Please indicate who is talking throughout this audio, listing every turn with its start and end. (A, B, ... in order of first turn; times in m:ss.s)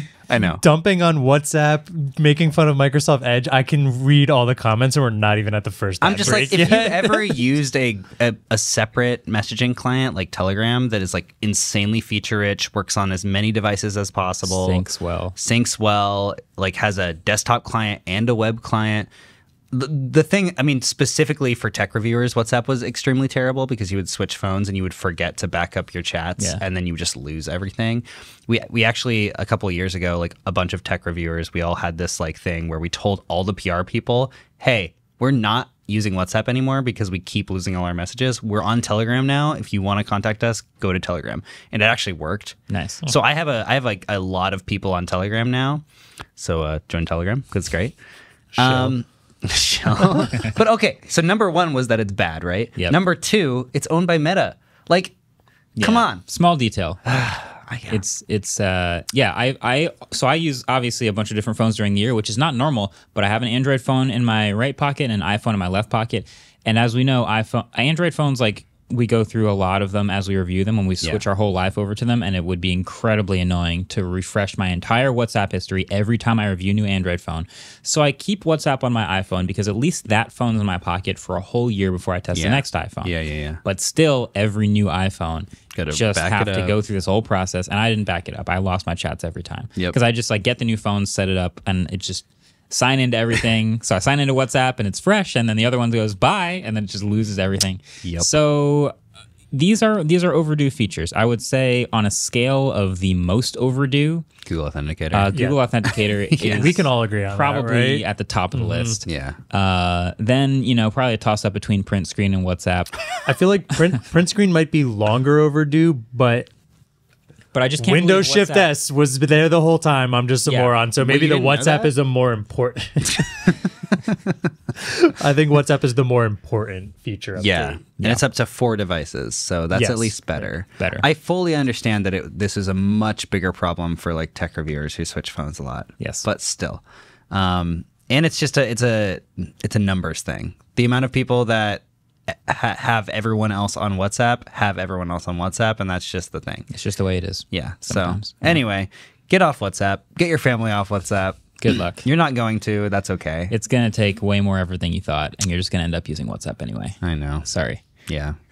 0:00.3-0:00.6 A
0:00.4-0:07.4 B
0:06.0-0:14.8 A
0:14.4-0:15.3 C
0:15.4-0:19.1 A
0:19.7-0:45.8 A
0:42.7-0:43.0 C
0:46.4-0:47.9 A
0:48.6-0:55.1 A
0:48.6-0:48.9 C
0:50.2-0:50.5 C
0:55.8-0:57.0 C
0:55.8-0:56.2 A
0:57.0-0:58.0 A
0:57.9-1:23.1 C
1:22.3-1:23.6 A
1:23.6-1:38.9 C
1:25.7-1:26.8 A
1:38.0-1:38.3 A
1:39.5-1:44.2 C
1:44.4-1:46.8 A
1:45.1-1:52.9 C
1:46.4-1:49.0 B
1:49.0-1:49.4 A
1:53.2-1:56.5 B
1:57.5-1:58.7 C
1:57.8-2:03.6 B
2:00.5-2:00.8 C
2:01.0-2:01.9 A
2:04.8-2:07.8 B
2:07.4-2:26.7 A
2:09.7-2:10.2 B
2:10.8-2:11.0 C
2:16.0-2:16.2 C
2:26.7-2:28.6 C
2:27.5-2:33.5 A
2:31.6-2:32.0 C
2:33.5-2:37.8 C
2:37.0-2:37.4 A
2:38.1-2:38.4 A